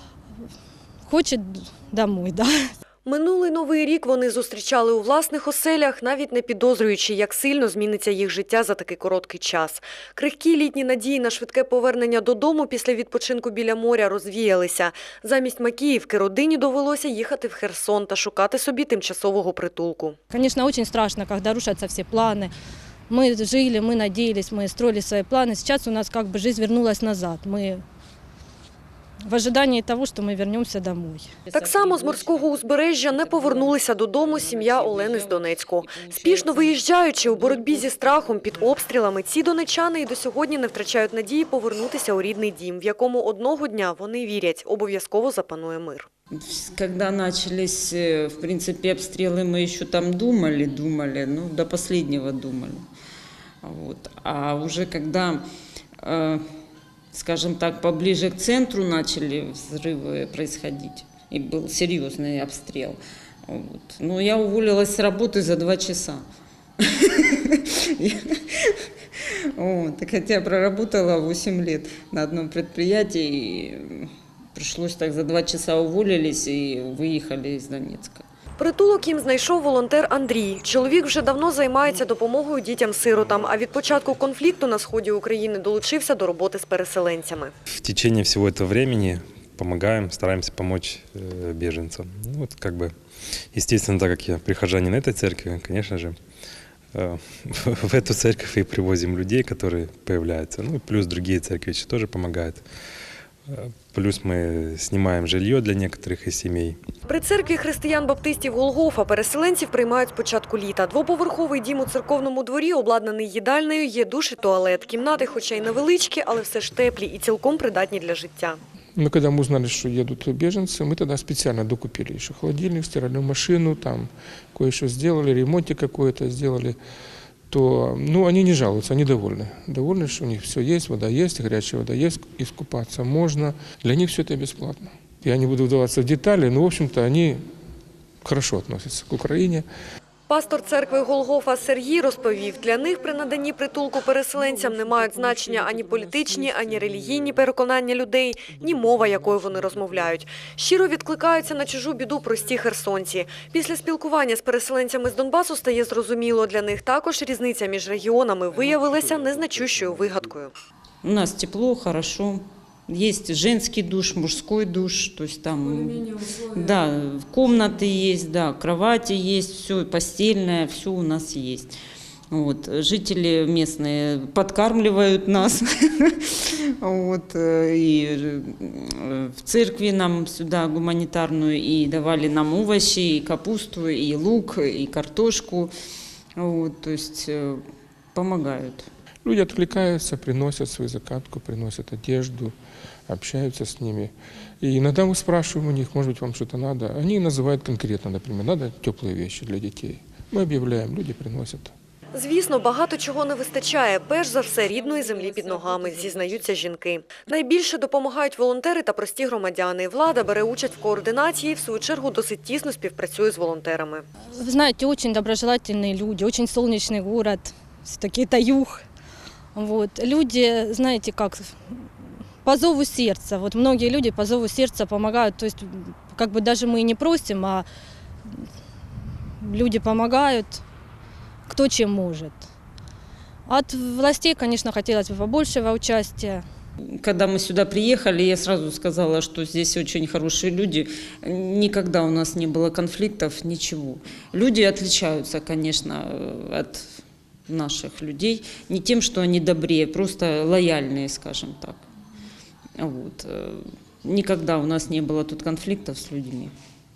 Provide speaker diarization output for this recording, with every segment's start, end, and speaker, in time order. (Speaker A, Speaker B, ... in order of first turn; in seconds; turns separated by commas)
Speaker A: 1.1-2.5, Speaker B: 3.0-20.2, Speaker A: 20.3-22.5, Speaker A: 23.1-27.8, Speaker A: 29.2-31.3, Speaker B: 31.5-46.1, Speaker C: 31.5-38.5, Speaker C: 46.4-52.9, Speaker C: 53.6-55.4, Speaker C: 56.0-56.4, Speaker C: 57.1-66.2, Speaker C: 66.8-68.8, Speaker C: 69.5-78.2, Speaker B: 78.6-87.5, Speaker D: 87.7-92.9, Speaker D: 93.5-96.2, Speaker D: 96.9-102.6, Speaker D: 103.5-106.8, Speaker B: 107.1-118.6, Speaker E: 119.0-126.8, Speaker E: 127.5-137.4, Speaker E: 138.2-139.7, Speaker B: 140.3-160.5, Speaker C: 161.0-171.7, Speaker C: 172.3-185.7, Speaker C: 186.4-187.6, Speaker C: 188.1-188.9, Speaker E: 189.2-192.5, Speaker E: 193.1-201.7, Speaker B: 202.1-214.1, Speaker C: 204.7-206.5, Speaker A: 214.4-218.8, Speaker A: 219.5-221.5, Speaker A: 222.4-227.7, Speaker A: 229.4-230.6, Speaker A: 231.5-232.4, Speaker A: 233.5-236.4, Speaker C: 236.9-251.8, Speaker C: 252.8-256.5